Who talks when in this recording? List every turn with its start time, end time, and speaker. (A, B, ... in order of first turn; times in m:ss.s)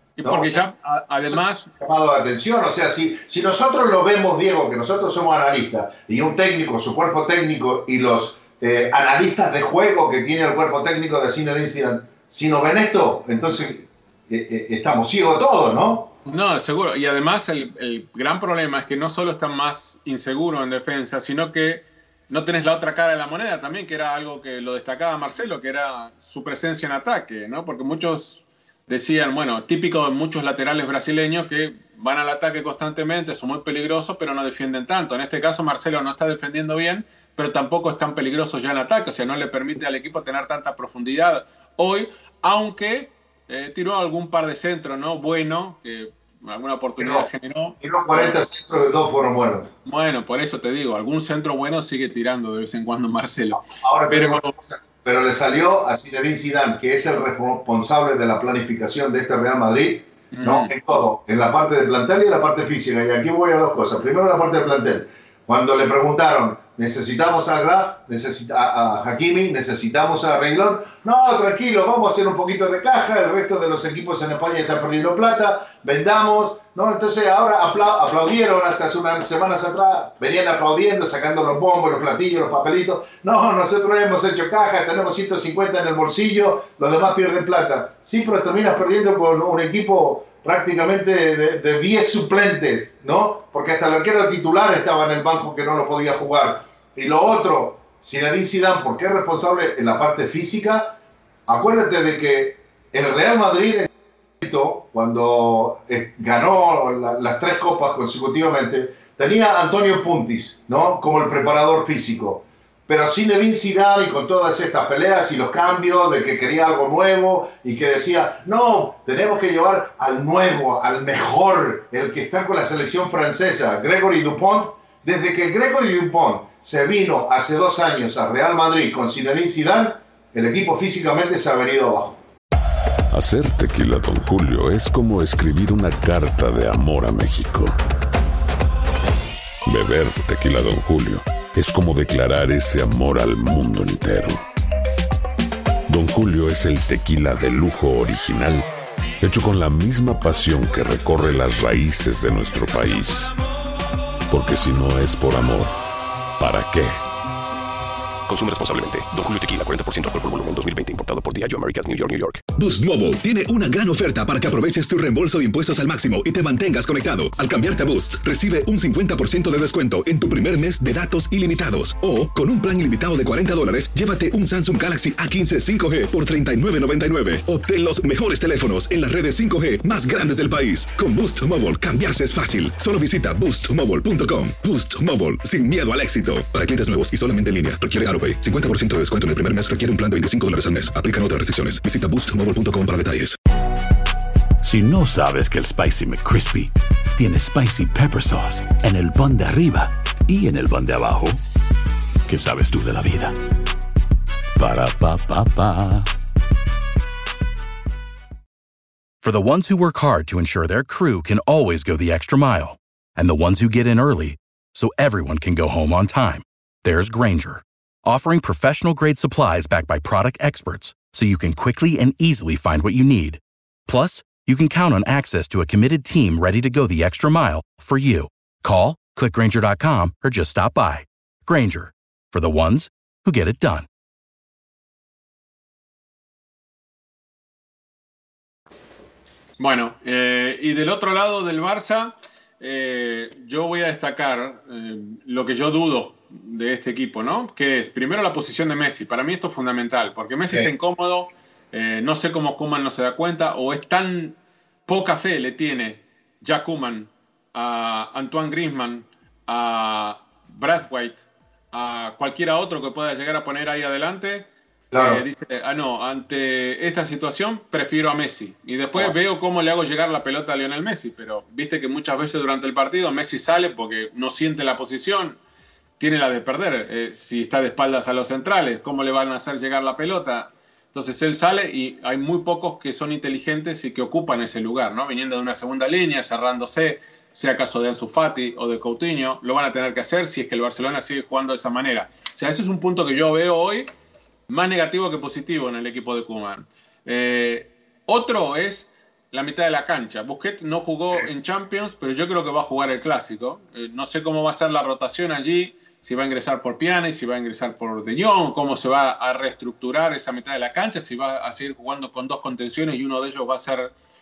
0:00.2-0:01.7 A
0:00.2-0:00.6 B
0:01.3-0:16.1 B
0:16.2-0:48.4 A
0:47.0-0:47.3 B
0:47.8-0:49.7 B
0:49.8-0:54.5 A
0:53.8-1:43.9 B
1:00.3-1:00.7 A
1:44.4-2:12.2 B
2:13.1-2:17.8 C
2:19.6-2:24.4 C
2:25.9-2:28.7 C
2:29.2-2:33.4 C
2:34.3-2:35.7 C
2:36.4-2:37.0 C
2:38.3-2:42.4 D
2:42.5-3:13.4 E
3:14.6-3:21.4 F
3:22.3-3:23.4 F
3:24.6-3:26.1 F
3:29.2-3:53.9 G
3:59.6-4:35.4 A
4:24.9-4:25.2 B
4:36.0-4:53.9 A
4:54.5-5:13.9 A